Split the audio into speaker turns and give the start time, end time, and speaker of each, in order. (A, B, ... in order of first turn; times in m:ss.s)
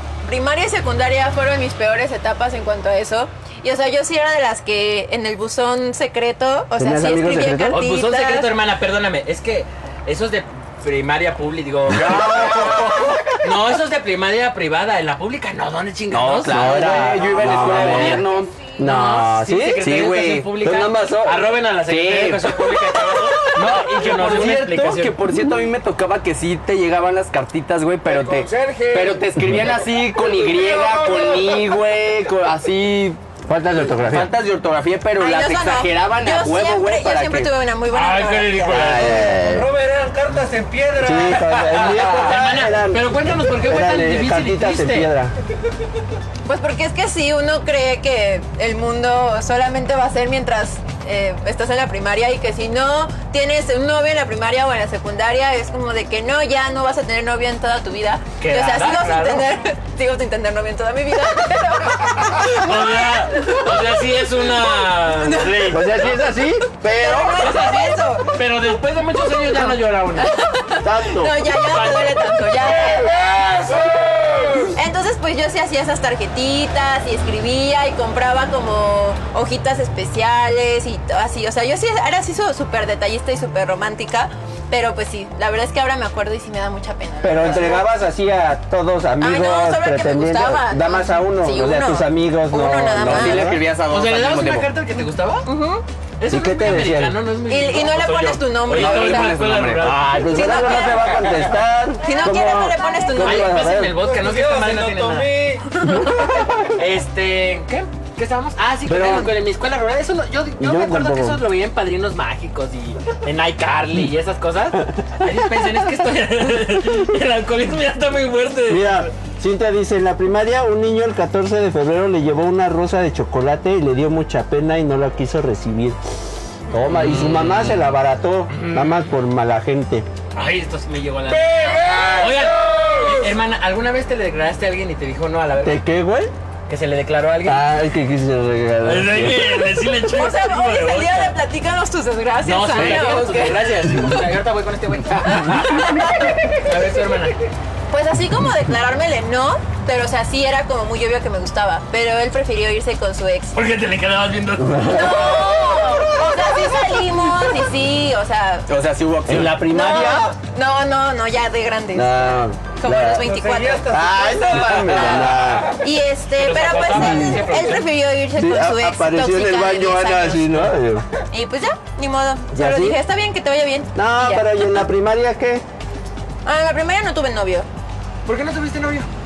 0:00.2-0:08.5 A
0:06.8-0:07.8 B
0:07.7-0:12.6 C
0:11.9-0:13.0 D
0:12.0-0:13.1 B
0:13.4-0:17.0 C
0:16.1-0:18.6 D
0:16.4-0:19.9 B
0:17.5-0:18.2 C
0:18.8-0:25.1 C
0:19.8-0:20.5 D
0:20.5-0:21.4 B
0:21.9-0:22.8 D
0:23.4-0:33.2 D
0:28.0-0:29.3 E
0:30.0-0:31.8 E
0:33.5-0:34.3 B
0:34.0-0:37.5 D
0:35.2-0:38.9 A
0:37.9-0:39.2 C
0:38.7-0:39.7 B
0:39.2-0:41.9 E
0:41.0-0:45.3 B
0:41.7-0:45.1 C
0:41.9-0:42.4 D
0:46.4-1:03.9 A
0:58.4-0:59.5 C
1:02.4-1:06.1 C
1:05.7-1:07.5 B
1:06.8-1:08.4 A
1:07.4-1:10.3 C
1:09.3-1:13.6 A
1:10.8-1:11.4 B
1:11.6-1:12.2 C
1:13.2-1:14.6 E
1:14.6-1:27.8 A
1:27.2-1:33.6 B
1:29.2-1:33.6 A
1:33.0-1:34.7 D
1:33.9-1:35.4 C
1:35.4-1:35.8 A
1:36.2-1:40.1 C
1:36.3-1:37.2 B
1:37.5-1:39.4 A
1:38.7-1:40.0 D
1:39.8-1:44.0 B
1:40.3-1:41.2 A
1:42.0-1:43.6 A
1:43.2-1:45.3 C
1:44.0-1:45.8 E
1:45.7-1:46.5 A
1:46.7-1:59.1 C
1:48.9-1:49.3 B
1:50.6-1:51.4 B
1:58.7-2:06.1 B
2:06.7-2:10.0 B
2:06.9-2:07.8 D
2:08.5-2:09.0 C
2:10.3-2:15.8 C
2:11.3-2:13.1 E
2:15.6-2:16.3 B
2:16.7-2:17.6 C
2:17.4-2:19.5 B
2:18.8-2:21.4 C
2:20.1-2:24.0 A
2:22.4-2:27.4 C
2:25.3-2:26.3 A
2:27.9-2:33.6 A
2:33.5-2:35.1 C
2:34.6-2:35.4 B
2:34.8-2:38.7 A
2:38.7-2:39.6 D
2:39.3-2:40.3 B
2:39.7-2:44.0 A
2:41.9-2:43.2 B
2:43.2-2:45.7 E
2:43.9-2:45.7 B
2:45.8-2:50.7 A
2:46.4-2:47.9 C
2:48.4-2:51.0 B
2:51.3-2:54.6 A
2:52.5-2:53.0 B
2:53.9-2:55.6 B
2:56.4-2:57.7 A
2:58.2-2:59.1 C